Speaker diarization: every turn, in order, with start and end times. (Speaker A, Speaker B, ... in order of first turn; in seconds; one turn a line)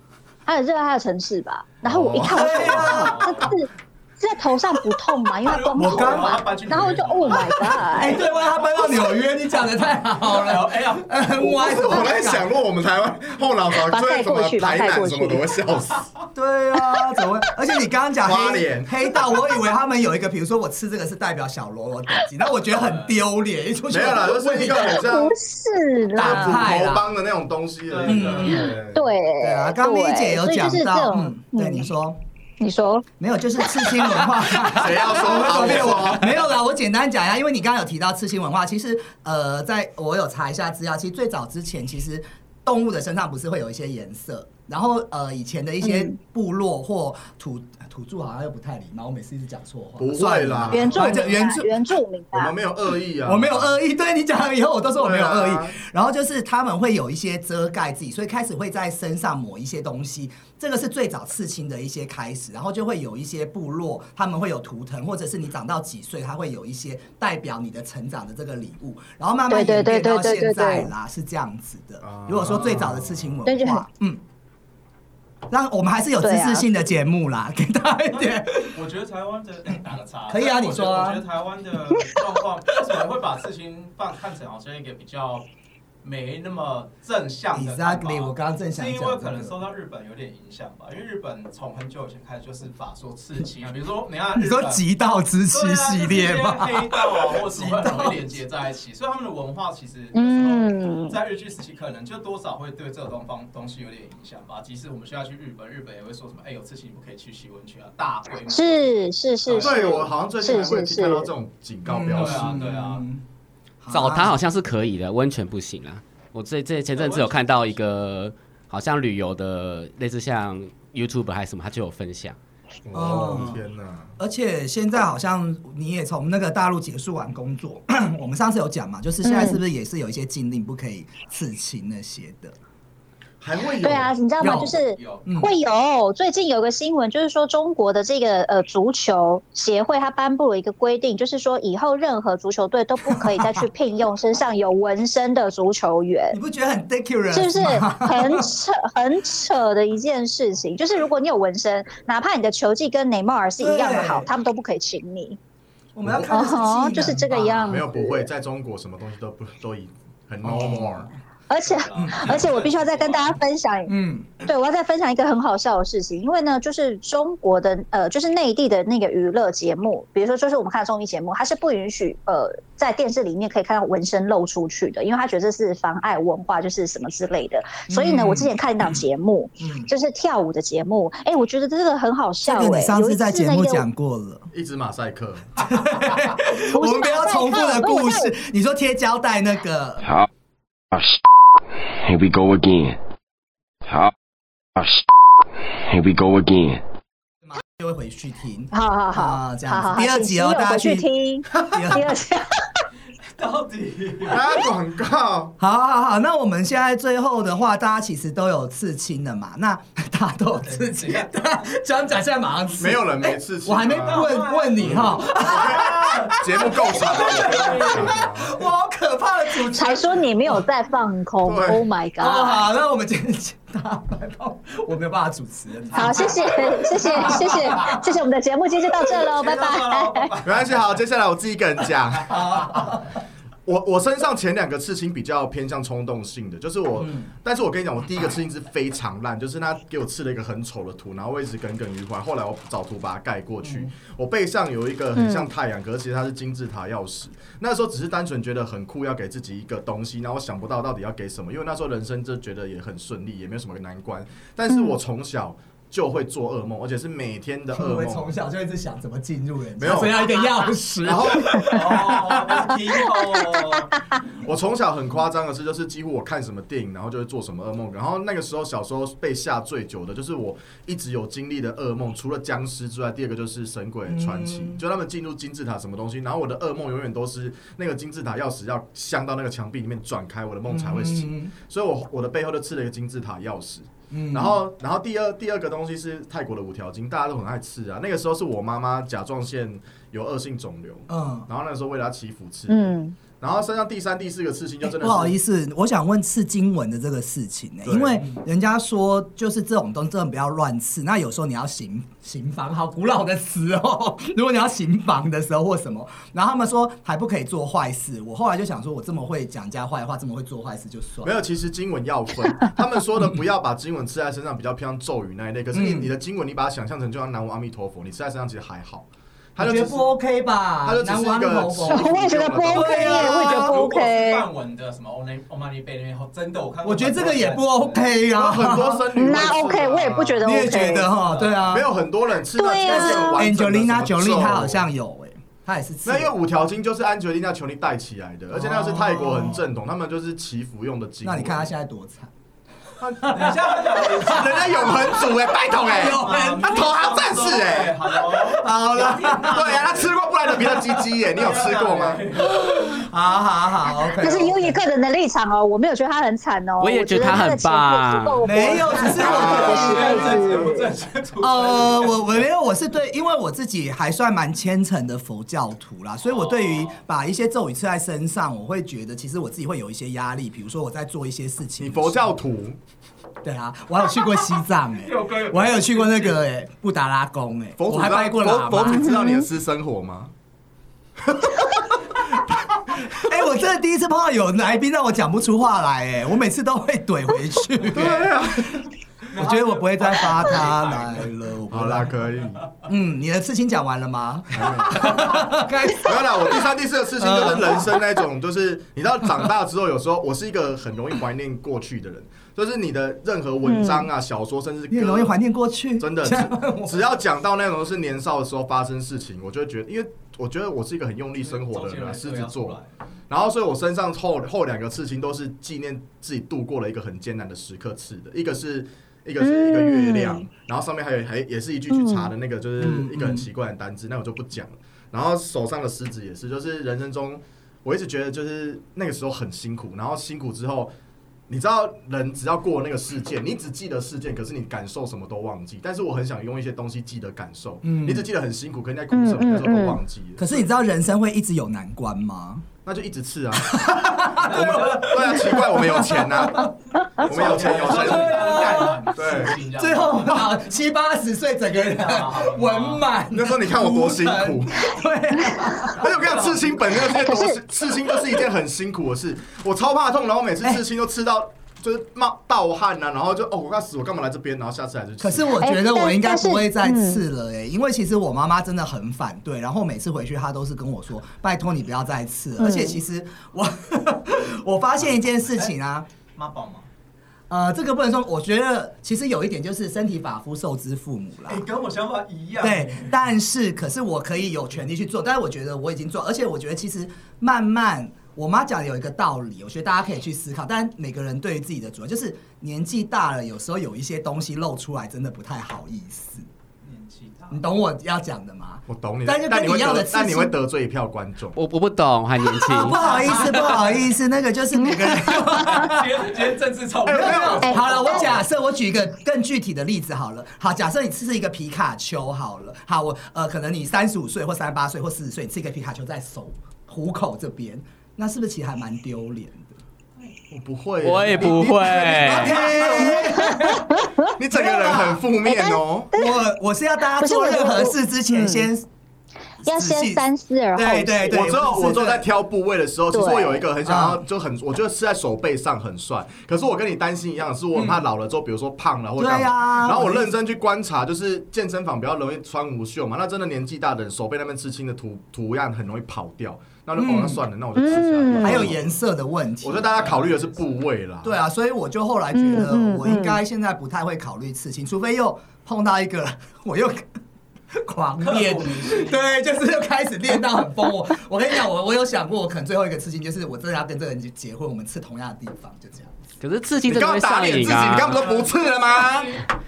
Speaker A: 0.5-8.2
Speaker B: 1.8-2.9
Speaker C: 2.2-3.3
Speaker D: 2.6-3.5
Speaker D: 5.4-8.7
Speaker C: 5.8-6.5
Speaker C: 7.8-12.5
Speaker D: 10.2-11.2
Speaker B: 11.3-16.1
Speaker A: 13.9-15.4
Speaker C: 16.3-25.0
Speaker B: 18.2-19.1
Speaker D: 22.7-23.2
Speaker B: 23.9-25.3
Speaker A: 24.8-26.7
Speaker C: 26.1-27.1
Speaker B: 26.2-29.1
Speaker D: 27.9-28.8
Speaker C: 28.1-28.8
Speaker A: 28.9-31.9
Speaker C: 29.4-32.2
Speaker A: 32.6-33.0
Speaker C: 33.2-51.8
Speaker A: 33.6-34.1
Speaker B: 34.7-36.4
Speaker D: 35.3-36.1
Speaker A: 45.8-46.1
Speaker B: 50.0-51.1
Speaker A: 50.7-52.5
Speaker B: 52.3-53.7
Speaker C: 53.2-74.2
Speaker B: 55.0-55.8
Speaker A: 69.5-70.9
Speaker B: 72.0-73.5
Speaker A: 73.5-73.8
Speaker C: 75.5-78.8
Speaker A: 76.2-76.7
Speaker D: 78.1-85.5
Speaker C: 80.3-81.2
Speaker D: 86.0-94.8
Speaker C: 87.5-89.6
Speaker C: 94.3-98.3
Speaker D: 95.5-110.1
Speaker A: 100.1-101.2
Speaker A: 108.5-109.9
Speaker B: 109.6-112.7
Speaker A: 110.4-111.3
Speaker C: 111.8-113.2
Speaker D: 112.1-113.0
Speaker C: 113.8-114.4
Speaker E: 113.9-122.4
Speaker D: 116.9-117.6
Speaker B: 122.8-124.1
Speaker C: 122.9-123.6
Speaker C: 124.2-132.6
Speaker A: 129.2-129.6
Speaker B: 133.4-134.2
Speaker A: 133.8-146.4
Speaker C: 134.4-135.5
Speaker D: 134.8-135.3
Speaker C: 143.1-143.6
Speaker C: 146.3-148.5
Speaker A: 147.3-155.4
Speaker C: 153.6-154.3
Speaker C: 155.9-157.9
Speaker A: 156.3-158.2
Speaker B: 157.6-161.1
Speaker C: 160.4-161.2
Speaker A: 161.5-183.8
Speaker D: 161.6-163.4
Speaker C: 161.9-162.4
Speaker C: 163.9-164.4
Speaker C: 177.9-179.0
Speaker C: 179.6-179.9
Speaker C: 182.4-184.5
Speaker B: 184.5-185.6
Speaker C: 185.6-190.1
Speaker A: 186.7-188.3
Speaker F: 190.9-191.2
Speaker F: 191.9-193.0
Speaker F: 193.8-194.1
Speaker F: 194.8-195.0
Speaker F: 195.7-196.8
Speaker C: 197.4-202.2
Speaker A: 198.7-202.6
Speaker D: 203.3-204.4
Speaker B: 204.2-205.5
Speaker C: 205.6-220.6
Speaker D: 210.6-211.8
Speaker B: 212.8-218.6
Speaker D: 213.9-218.2
Speaker A: 219.7-222.7
Speaker B: 221.4-221.8
Speaker C: 222.2-228.0
Speaker A: 225.9-230.3
Speaker D: 225.9-228.0
Speaker D: 229.1-230.9
Speaker B: 230.4-232.8
Speaker C: 232.3-233.1
Speaker B: 233.7-258.3
Speaker C: 237.0-237.3
Speaker C: 243.6-243.9
Speaker A: 245.2-245.5
Speaker A: 254.7-254.9
Speaker C: 257.7-262.9
Speaker B: 259.8-260.3
Speaker B: 261.0-261.8
Speaker D: 261.7-263.9
Speaker B: 264.4-295.3
Speaker C: 274.1-274.8
Speaker C: 280.7-281.5
Speaker C: 284.1-284.6
Speaker C: 291.1-291.5
Speaker A: 292.7-293.2
Speaker C: 294.8-311.4
Speaker B: 297.9-298.3
Speaker B: 311.2-320.0
Speaker C: 315.7-316.1
Speaker C: 319.6-323.8
Speaker B: 320.8-323.3
Speaker A: 321.9-324.4
Speaker D: 323.2-328.1
Speaker C: 326.8-329.4
Speaker B: 328.3-330.4
Speaker A: 329.1-331.1
Speaker C: 330.4-331.9
Speaker D: 331.1-331.7
Speaker B: 331.6-334.8
Speaker A: 332.6-333.4
Speaker C: 332.8-336.3
Speaker B: 336.1-341.7
Speaker C: 338.5-339.7
Speaker C: 341.2-342.3
Speaker B: 343.0-343.3
Speaker C: 343.2-346.9
Speaker D: 343.2-352.9
Speaker B: 344.2-348.0
Speaker C: 348.3-349.8
Speaker B: 349.2-352.2
Speaker C: 352.4-354.8
Speaker A: 352.6-352.9
Speaker A: 354.2-360.9
Speaker E: 356.8-358.5
Speaker C: 358.4-360.6
Speaker D: 358.6-362.4
Speaker B: 359.2-360.0
Speaker C: 361.4-372.3
Speaker D: 366.3-366.9
Speaker B: 371.8-372.8
Speaker C: 373.4-379.1
Speaker D: 374.9-376.4
Speaker B: 377.8-380.3
Speaker A: 378.9-379.4
Speaker B: 381.2-381.6
Speaker C: 382.9-388.5
Speaker B: 387.9-388.8
Speaker D: 389.3-391.3
Speaker C: 389.3-392.1
Speaker B: 391.7-392.6
Speaker C: 392.9-396.6
Speaker B: 394.5-405.3
Speaker C: 397.2-398.0
Speaker A: 403.6-404.1
Speaker C: 404.9-407.1
Speaker B: 406.0-430.9
Speaker D: 411.4-412.9
Speaker A: 419.4-420.4
Speaker A: 421.9-422.3
Speaker C: 422.8-423.5
Speaker B: 431.5-440.7
Speaker C: 437.8-438.3
Speaker A: 439.1-440.0
Speaker C: 440.4-442.7
Speaker B: 442.8-449.6
Speaker C: 443.6-446.7
Speaker D: 444.3-445.6
Speaker D: 447.2-450.6
Speaker C: 447.2-456.1
Speaker D: 451.8-453.1
Speaker B: 453.3-454.9
Speaker B: 455.9-465.5
Speaker D: 456.1-457.0
Speaker A: 457.1-457.6
Speaker C: 465.2-476.1
Speaker A: 465.6-467.2
Speaker A: 472.6-473.0
Speaker D: 475.5-475.7
Speaker D: 476.3-476.9
Speaker C: 477.5-481.6
Speaker D: 481.5-483.2
Speaker C: 482.6-496.5
Speaker D: 496.8-497.7
Speaker C: 497.5-500.6
Speaker B: 498.9-501.6
Speaker E: 501.6-503.3
Speaker C: 502.6-506.3
Speaker D: 502.9-504.1
Speaker D: 505.3-508.5
Speaker B: 507.1-508.1
Speaker C: 507.1-519.8
Speaker A: 507.9-508.2
Speaker B: 520.5-523.7
Speaker E: 521.0-522.6
Speaker C: 521.9-525.2
Speaker A: 522.8-524.3
Speaker B: 524.2-526.1
Speaker A: 525.4-526.4
Speaker C: 526.1-528.9
Speaker A: 527.2-528.7
Speaker A: 529.6-531.4
Speaker C: 529.6-532.2
Speaker B: 531.3-549.0
Speaker A: 533.1-533.6
Speaker C: 533.8-534.2
Speaker C: 537.7-538.1
Speaker C: 539.2-540.4
Speaker C: 547.0-547.4
Speaker A: 547.8-548.7
Speaker C: 548.4-549.9
Speaker B: 549.6-551.4
Speaker D: 549.8-550.8
Speaker C: 551.2-557.1
Speaker A: 552.3-553.4
Speaker C: 557.7-566.1
Speaker D: 558.2-559.2
Speaker E: 566.4-568.3
Speaker B: 566.9-569.4